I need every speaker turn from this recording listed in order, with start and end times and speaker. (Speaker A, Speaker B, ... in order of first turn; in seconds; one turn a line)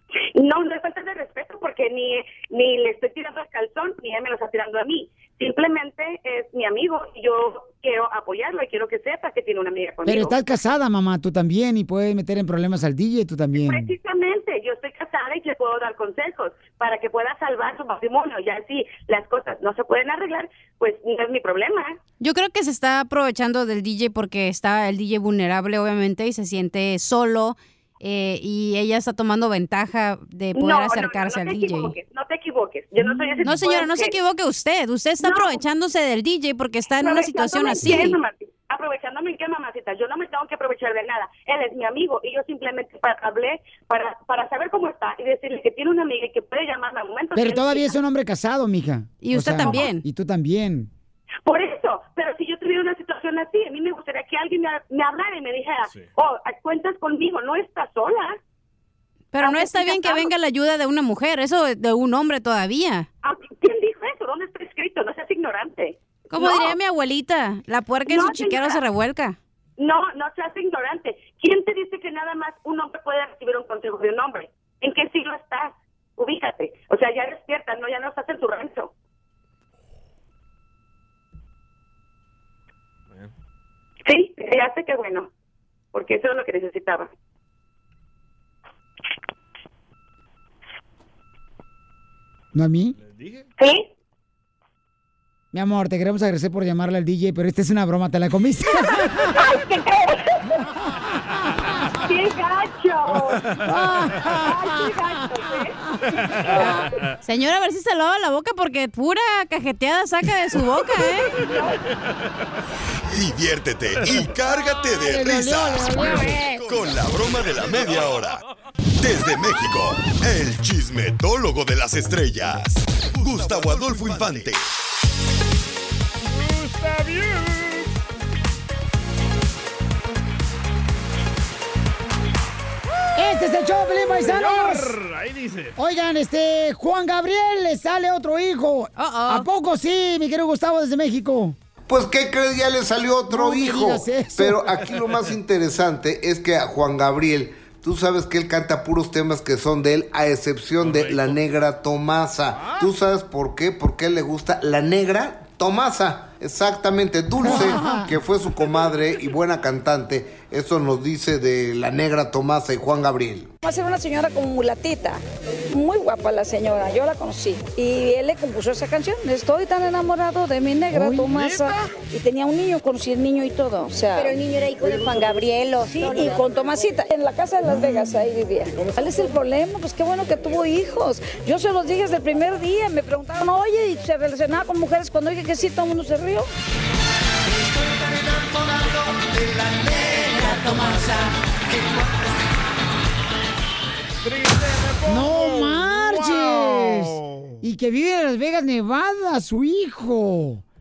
Speaker A: 0.3-10.3
Speaker B: 10.1-13.9
Speaker A: 13.6-22.0
Speaker C: 22.2-32.0
Speaker A: 30.5-34.1
Speaker C: 33.0-38.2
Speaker A: 35.2-35.6
Speaker A: 37.0-47.9
Speaker B: 47.4-50.9
Speaker C: 49.2-50.0
Speaker A: 51.4-58.4
Speaker C: 59.3-63.1
Speaker A: 59.4-60.3
Speaker A: 63.2-66.8
Speaker C: 66.3-69.4
Speaker A: 68.1-68.8
Speaker A: 69.8-78.9
Speaker A: 84.0-85.3
Speaker A: 85.9-87.1
Speaker B: 92.5-93.0
Speaker D: 93.0-93.5
Speaker A: 93.6-93.9
Speaker B: 95.5-99.4
Speaker A: 99.3-100.4
Speaker A: 102.0-103.4
Speaker D: 103.3-103.6
Speaker B: 103.6-105.0
Speaker A: 104.3-105.8
Speaker B: 106.5-106.8
Speaker C: 107.2-111.4
Speaker A: 111.4-111.7
Speaker E: 113.1-118.4
Speaker B: 115.0-116.8
Speaker E: 119.0-124.6
Speaker D: 123.6-124.2
Speaker D: 126.3-127.9
Speaker B: 133.2-134.9
Speaker D: 134.2-135.8
Speaker B: 135.8-141.6
Speaker C: 139.0-139.5
Speaker F: 141.9-163.5
Speaker B: 143.3-144.7
Speaker D: 150.8-151.4
Speaker D: 152.5-152.9
Speaker B: 157.4-158.1
Speaker G: 163.6-186.5
Speaker B: 170.9-171.3
Speaker D: 171.2-171.9
Speaker B: 177.7-178.0
Speaker C: 190.7-190.9
Speaker D: 194.2-197.6
Speaker B: 195.1-200.6